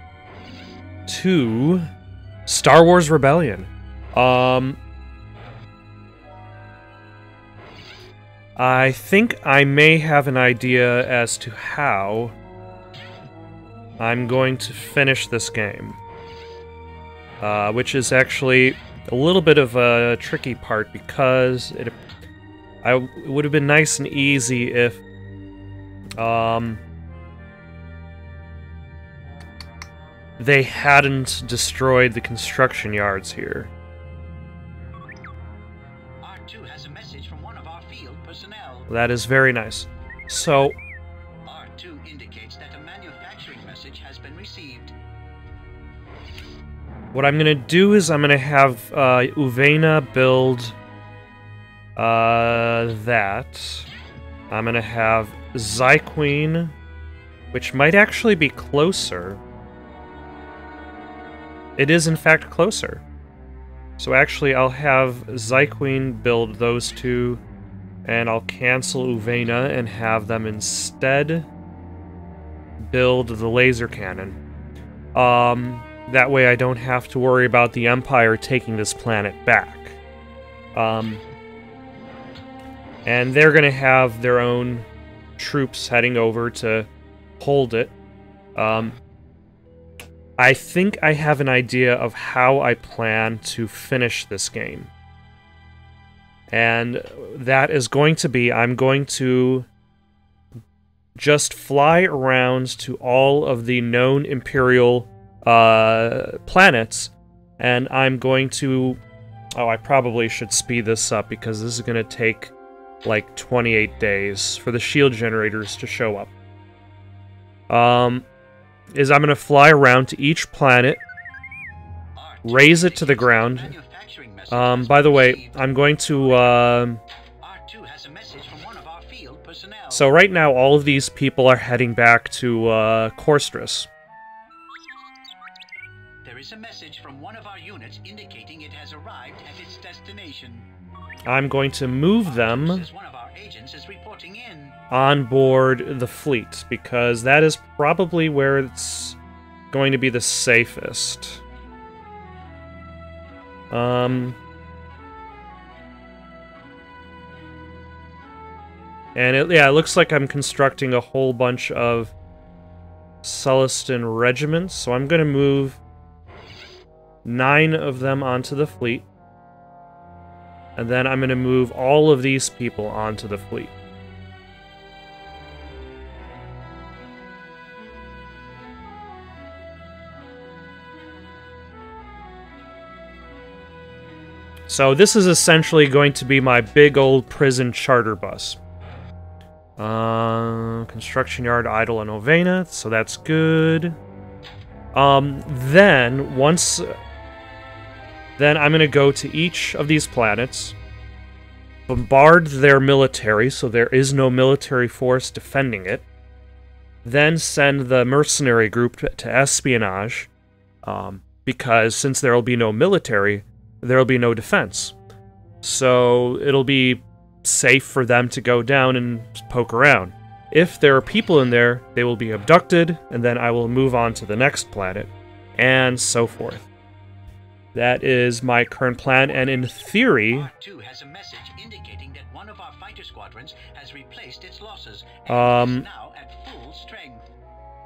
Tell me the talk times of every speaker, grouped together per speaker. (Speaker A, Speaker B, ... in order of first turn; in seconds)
Speaker A: 1.1-1.9, 2.5-4.8, 8.6-12.4, 14.0-16.0, 17.4-22.0, 22.8-25.0, 26.2-26.8, 30.4-33.7, 38.9-40.8, 47.1-50.8, 52.0-53.9, 54.5-56.8, 57.5-59.4, 61.8-63.0, 64.0-67.4, 68.0-71.5, 72.8-74.4, 75.1-80.0, 80.7-81.2, 83.0-86.9, 87.4-87.9, 88.6-89.0, 90.4-94.9, 96.5-99.7, 101.2-109.0, 109.5-112.5, 113.0-116.3, 117.7-118.3, 118.9-121.0, 122.4-123.8, 124.5-127.0, 129.9-133.9, 141.2-142.9, 144.9-149.2, 149.7-151.4, 153.7-154.4, 159.2-162.1, 163.2-165.8, 167.2-169.1, 170.8-173.7, 184.7-188.6, 189.8-194.0, 194.9-197.0, 198.4-200.8, 201.9-206.1, 207.1-210.3, 210.8-214.9, 215.6-226.7, 227.7-230.5, 235.3-235.8
Speaker B: 36.2-38.9, 41.5-44.9, 122.1-126.7, 127.4-130.1, 136.2-140.7, 142.2-144.8, 229.1-237.3